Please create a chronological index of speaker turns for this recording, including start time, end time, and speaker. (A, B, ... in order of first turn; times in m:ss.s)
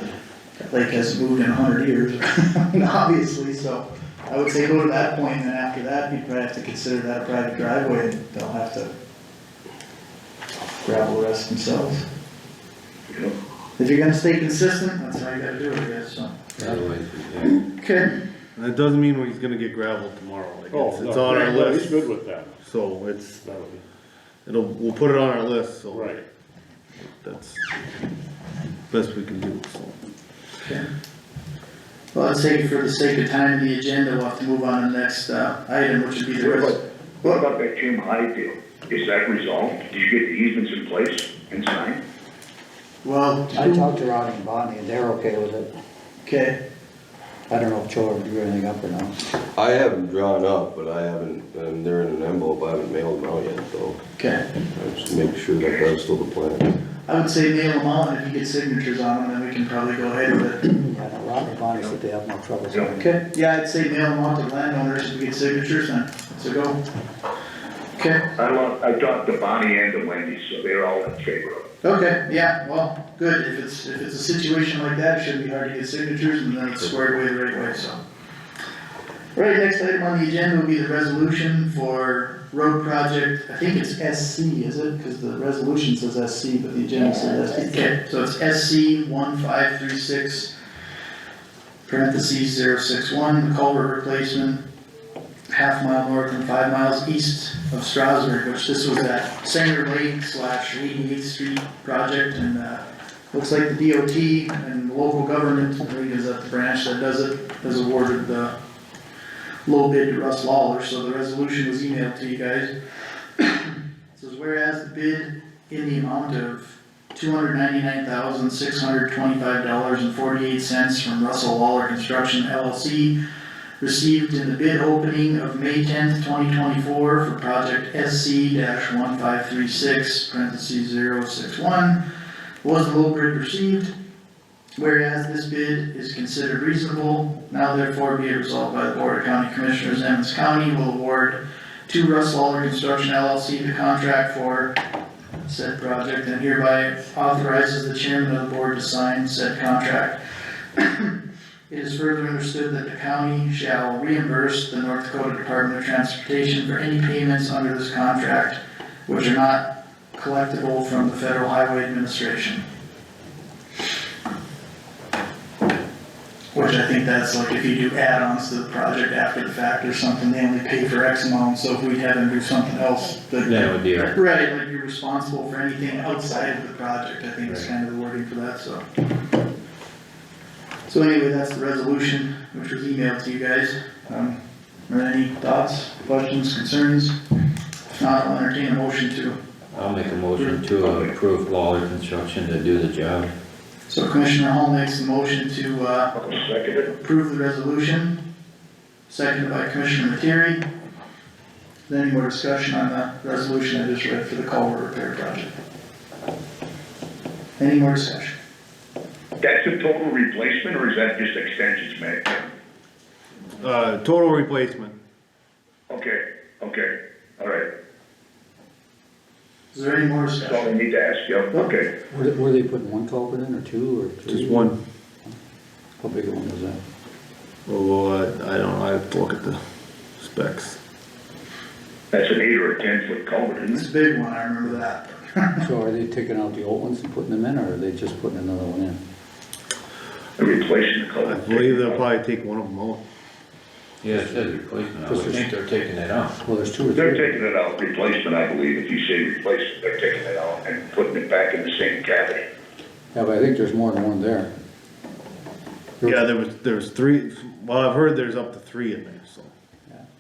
0:00.6-0:08.9 A
0:10.8-0:12.0 A
0:13.1-0:13.3 B
0:13.8-0:16.6 A
0:16.6-0:17.6 C
0:17.5-0:18.1 A
0:18.6-0:22.1 D
0:20.7-0:22.6 E
0:22.6-0:23.4 D
0:23.4-0:23.8 E
0:24.5-0:26.2 D
0:25.9-0:26.2 E
0:27.0-0:27.6 D
0:28.9-0:30.0 D
0:30.6-0:30.9 A
0:32.1-0:37.4 A
0:36.4-0:42.0 B
0:43.0-0:43.9 A
0:43.5-0:45.7 F
0:46.2-0:46.6 A
0:47.5-0:49.2 F
0:49.6-0:54.0 G
0:54.2-0:54.4 A
0:54.7-0:56.8 G
0:55.6-0:55.9 B
0:57.1-1:00.6 A
1:00.7-1:03.2 F
1:01.7-1:02.0 B
1:03.0-1:06.8 A
1:08.0-1:08.3 A
1:08.4-1:11.6 B
1:11.8-1:18.0 A
1:19.4-1:30.5 A
1:31.9-1:34.6 A
1:35.5-1:48.5 A
1:49.7-1:52.7 A
1:53.4-2:03.1 A
2:03.8-2:12.0 A
2:12.6-2:13.9 A
2:14.8-2:24.7 A
2:25.5-2:30.2 A
2:30.8-2:31.1 A
2:31.7-2:42.6 A
2:46.5-2:58.8 A
2:53.4-2:54.1 C
3:00.9-3:04.4 A
3:04.9-3:07.2 A
3:08.0-3:09.4 A
3:09.7-3:13.3 C
3:10.8-3:11.1 B
3:13.9-3:16.1 A
3:16.2-3:16.9 B
3:16.9-3:18.2 A
3:19.1-3:20.6 A
3:21.9-3:25.6 A
3:27.6-3:28.4 A
3:29.4-3:32.5 B
3:33.6-3:35.0 D
3:35.9-3:37.7 B
3:39.7-3:40.7 A
3:40.4-3:41.9 B
3:42.1-3:44.7 F
3:44.3-3:44.8 D
3:46.0-3:46.8 F
3:47.7-3:49.6 D
3:50.2-3:50.8 D
3:52.1-3:53.9 B
3:53.7-3:55.6 A
3:55.6-3:59.0 F
4:00.4-4:02.0 B
4:01.2-4:03.0 D
4:04.0-4:06.4 C
4:05.1-4:05.5 F
4:06.4-4:07.4 F
4:06.9-4:12.4 B
4:13.1-4:14.5 F
4:16.0-4:19.5 D